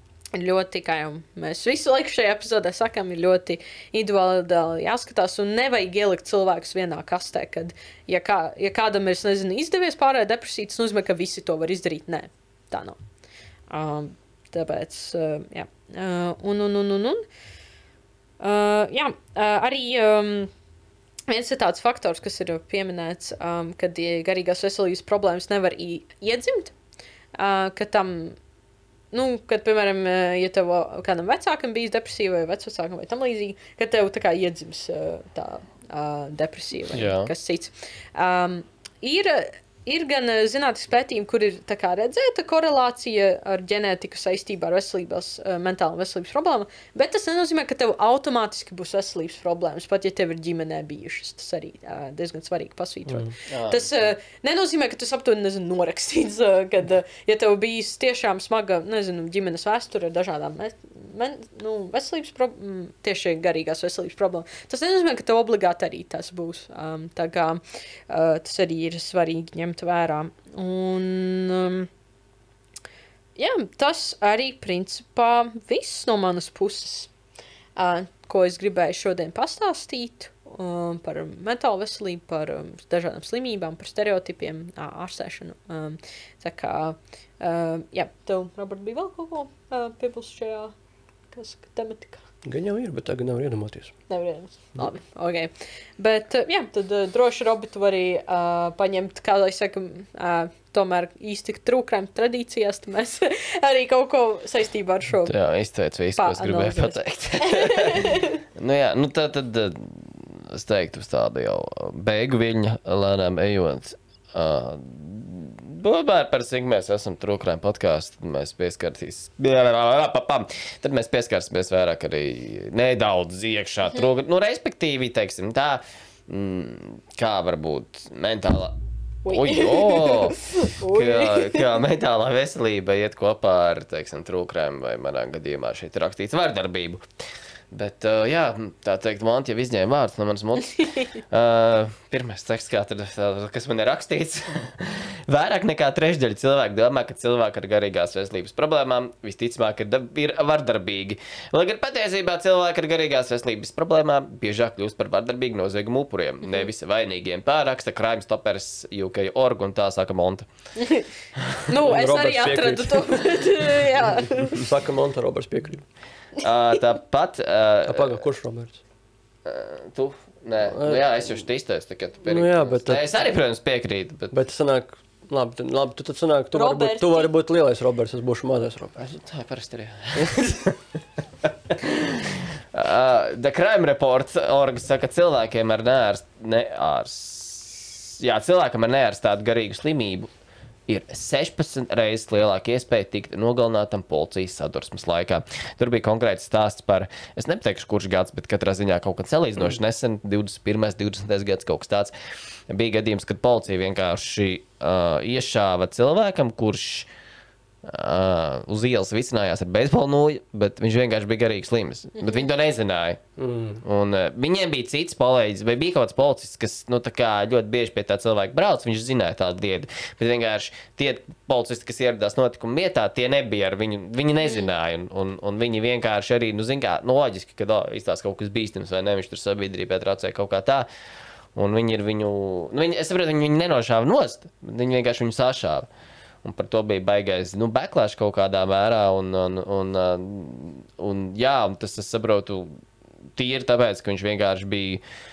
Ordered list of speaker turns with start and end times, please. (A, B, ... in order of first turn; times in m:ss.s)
0:00.3-0:13.0 A
0:13.7-0:17.2 A
0:18.4-0:20.5 A
0:21.3-0:26.8 A
0:27.4-0:28.4 A
0:29.1-1:11.9 A
0:36.9-0:37.3 B
0:53.5-0:53.9 B
1:13.4-1:17.1 A
1:17.8-1:30.7 A
1:31.3-1:32.2 A
1:32.4-1:34.0 C
1:34.1-1:45.3 A
1:45.3-2:17.0 B
1:46.2-1:48.4 A
2:09.2-2:11.7 A
2:17.7-2:40.5 B
2:40.8-2:41.1 A
2:41.7-2:44.6 A
2:41.8-2:45.8 C
2:46.4-2:48.2 B
2:47.9-2:48.8 C
2:49.4-2:54.3 B
2:50.7-2:51.0 C
2:52.3-2:53.1 C
2:54.3-2:59.0 C
2:56.6-2:57.3 A
2:59.0-3:00.8 B
3:01.4-3:10.3 B
3:10.9-3:22.1 B
3:22.7-3:27.1 B
3:27.8-3:33.2 B
3:32.2-3:32.5 A
3:33.4-3:33.8 C
3:33.8-3:50.9 B
3:51.6-3:55.9 B
3:56.4-4:02.8 B
4:03.4-4:05.0 B